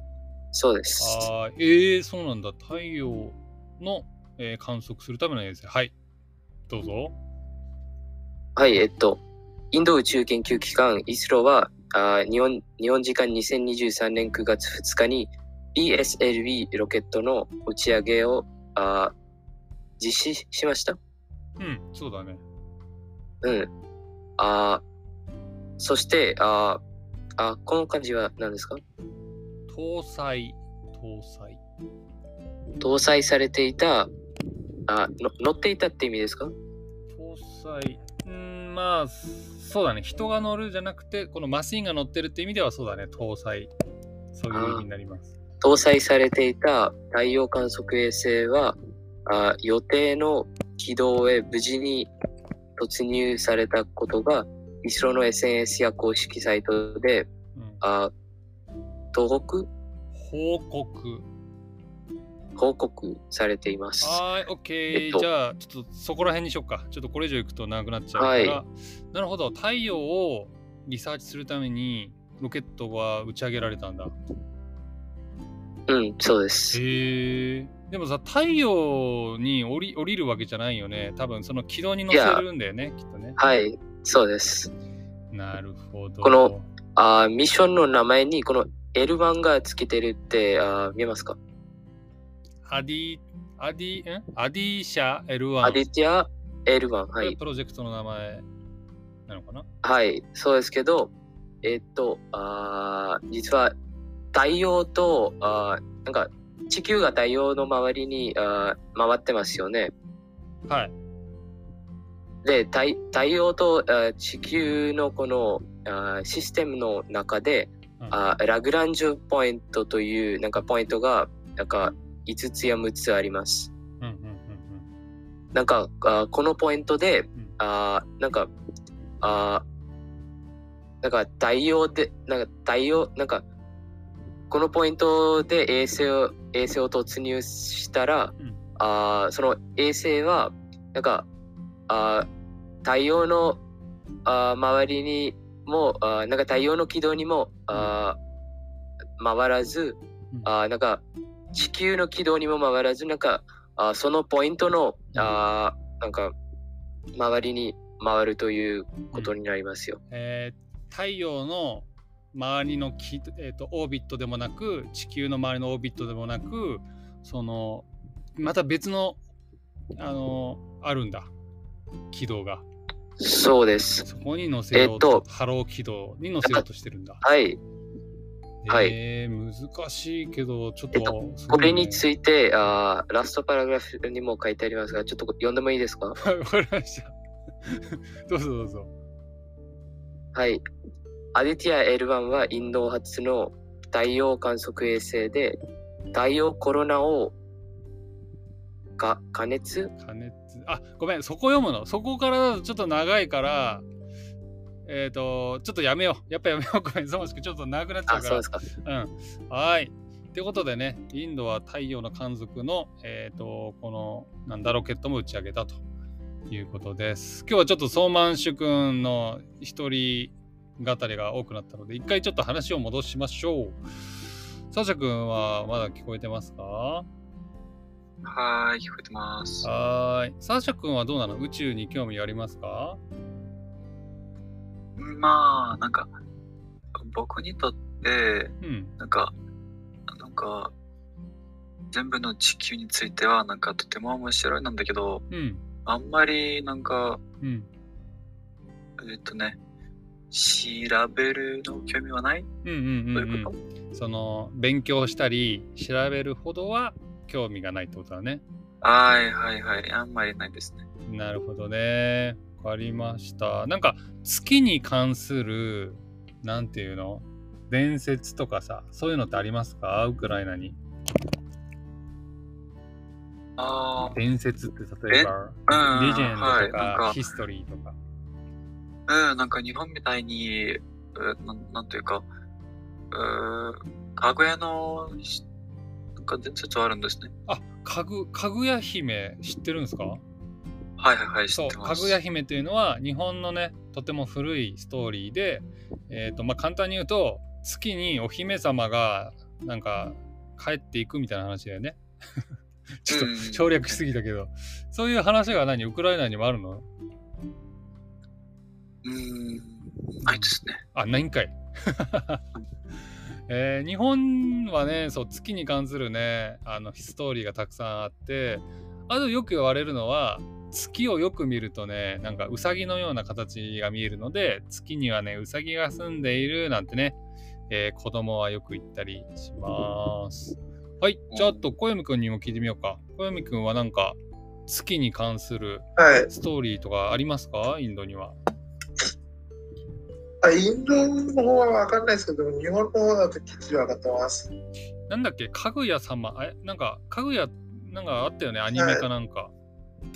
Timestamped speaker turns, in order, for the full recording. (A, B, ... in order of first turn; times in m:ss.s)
0:00.5-0:01.3 A
0:01.0-0:05.9 B
0:06.7-0:07.2 B
0:08.6-0:09.2 A
0:09.7-0:19.1 A
0:20.0-0:21.0 A
0:21.6-0:22.4 B
0:23.4-0:23.7 A
0:24.4-0:24.8 A
0:25.8-0:26.8 A
0:27.4-0:28.8 A
0:29.7-0:31.6 B
0:32.8-0:34.1 A
0:34.9-0:36.5 A
0:37.1-0:43.7 B
0:44.3-0:45.3 B
0:44.5-0:44.8 A
0:45.6-0:52.1 A
0:52.8-0:57.3 A
0:57.5-0:57.8 B
0:57.8-0:58.1 A
0:59.1-0:59.7 A
1:00.1-1:01.2 B
1:02.6-1:04.2 A
1:04.0-1:14.1 B
1:04.9-1:05.2 A
1:08.2-1:08.6 A
1:15.9-1:16.8 A
1:16.7-1:23.4 B
1:22.1-1:22.4 A
1:23.4-1:24.7 A
1:25.3-1:26.6 B
1:26.2-1:31.4 A
1:32.6-1:35.8 B
1:35.6-1:37.4 A
1:37.2-1:38.4 B
1:39.3-1:39.6 B
1:39.8-1:41.1 A
1:41.6-1:43.7 A
1:44.3-1:49.9 A
1:50.7-1:50.9 B
1:52.4-2:03.7 A
2:04.0-2:04.9 B
2:05.5-2:08.5 A
2:09.2-2:09.6 A
2:11.0-2:13.4 A
2:14.5-2:21.3 A
2:21.9-2:22.3 A
2:22.8-2:23.6 A
2:24.2-2:28.2 A
2:29.2-2:31.0 A
2:31.5-2:36.3 A
2:37.2-2:40.0 A
2:40.1-2:49.2 B
2:50.0-2:51.3 B
2:52.1-2:52.6 B
2:53.2-2:54.0 A
2:54.0-2:57.2 B
2:54.7-2:55.2 A
2:57.2-2:57.6 A
2:58.6-3:02.0 B
2:58.7-2:58.9 A
3:00.9-3:06.2 A
3:06.2-3:08.9 B
3:10.3-3:10.6 A
3:11.3-3:15.6 A
3:16.1-3:17.3 A
3:19.0-3:19.9 A
3:20.0-3:23.8 B
3:24.8-3:35.8 B
3:28.1-3:28.6 A
3:36.5-3:43.8 B
3:44.7-3:47.0 B
3:48.2-3:49.7 C
3:49.6-3:53.0 B
3:55.0-3:56.1 C
3:57.0-3:59.3 C
3:58.6-3:58.9 B
4:00.1-4:00.7 C
4:01.9-4:05.2 C
4:05.3-4:05.6 B
4:05.8-4:07.2 C
4:07.4-4:07.7 B
4:09.0-4:09.6 C
4:10.3-4:12.5 C
4:12.6-4:18.4 B
4:13.1-4:13.6 C
4:18.8-4:20.8 C
4:21.0-4:30.8 B
4:33.6-4:34.2 C
4:34.1-4:38.0 B
4:35.1-4:37.2 C
4:39.1-4:42.2 C
4:43.1-4:45.4 C
4:46.2-4:47.3 C
4:47.5-4:50.2 B
4:51.0-4:52.1 C
4:51.5-5:02.4 B
5:03.0-5:06.8 B
5:03.1-5:04.0 C
5:09.0-5:10.8 C
5:10.2-5:12.4 B
5:13.5-5:27.2 B
5:27.7-5:38.4 B
5:31.3-5:31.6 C
5:36.0-5:36.3 D
5:40.4-5:44.5 D
5:45.1-5:49.5 B
5:48.7-5:49.0 D